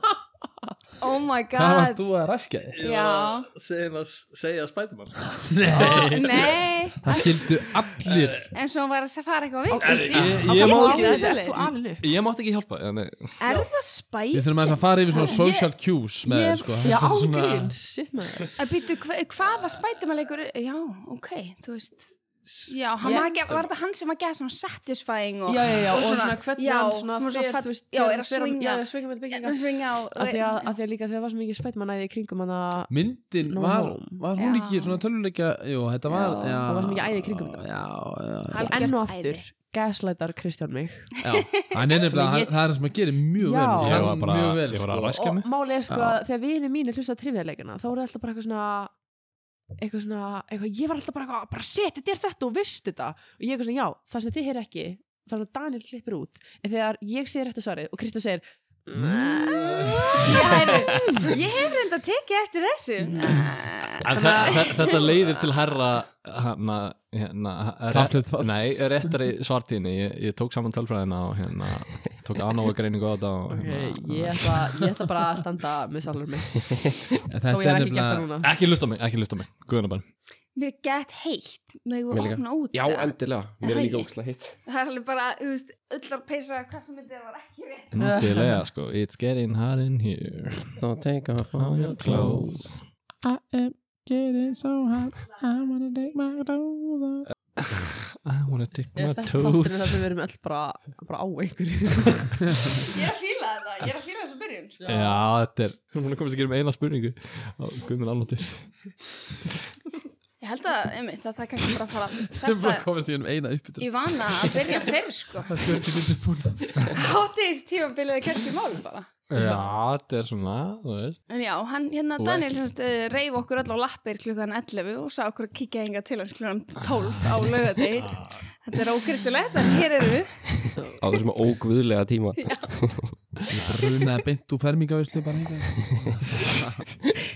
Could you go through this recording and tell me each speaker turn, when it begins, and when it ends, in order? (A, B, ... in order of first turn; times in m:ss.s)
0:01.0-0:02.0 A
0:01.6-0:02.8 B
0:02.7-0:06.4 C
0:02.8-0:03.5 A
0:05.4-0:06.3 B
0:05.8-0:07.5 A
0:07.0-0:08.5 B
0:08.0-0:08.5 C
0:08.5-0:11.7 A
0:09.7-0:12.1 D
0:09.8-0:13.6 C
0:13.4-0:15.7 A
0:14.3-0:17.7 B
0:16.2-0:18.6 D
0:18.6-0:30.7 A
0:22.4-0:22.8 C
0:23.0-0:23.3 D
0:25.5-0:32.9 D
0:32.9-0:39.0 B
0:33.4-0:34.2 D
0:34.4-0:35.0 A
0:36.1-0:36.6 A
0:36.4-0:37.6 D
0:38.5-0:39.4 A
0:38.7-0:41.2 D
0:41.2-0:45.1 B
0:42.1-0:42.6 D
0:43.4-0:44.1 D
0:43.8-0:45.5 C
0:45.2-0:48.9 D
0:45.9-0:46.2 B
0:49.8-1:01.4 D
0:59.5-1:00.0 B
1:00.1-1:05.1 A
1:04.0-1:14.5 C
1:04.1-1:04.7 D
1:07.9-1:09.1 B
1:13.5-1:16.8 D
1:14.1-1:14.6 B
1:17.3-1:18.3 B
1:17.5-1:18.5 D
1:18.4-1:20.0 C
1:20.6-1:24.1 A
1:22.1-1:24.6 E
1:24.7-1:28.0 A
1:27.9-1:30.8 C
1:28.0-1:28.6 D
1:30.7-1:32.8 E
1:31.6-1:32.8 C
1:32.1-1:32.4 B
1:33.2-1:37.3 B
1:37.6-1:40.0 C
1:39.0-1:42.7 D
1:42.8-1:44.8 A
1:44.8-1:45.2 D
1:44.9-1:48.9 C
1:50.4-1:52.9 A
1:52.3-1:54.9 B
1:53.8-1:55.6 A
1:55.5-1:56.9 B
1:56.8-1:59.1 A
1:59.3-2:01.2 C
2:01.3-2:10.8 A
2:02.2-2:02.5 C
2:08.0-2:08.4 C
2:11.0-2:13.1 E
2:12.4-2:12.7 A
2:13.5-2:16.2 B
2:13.6-2:13.9 C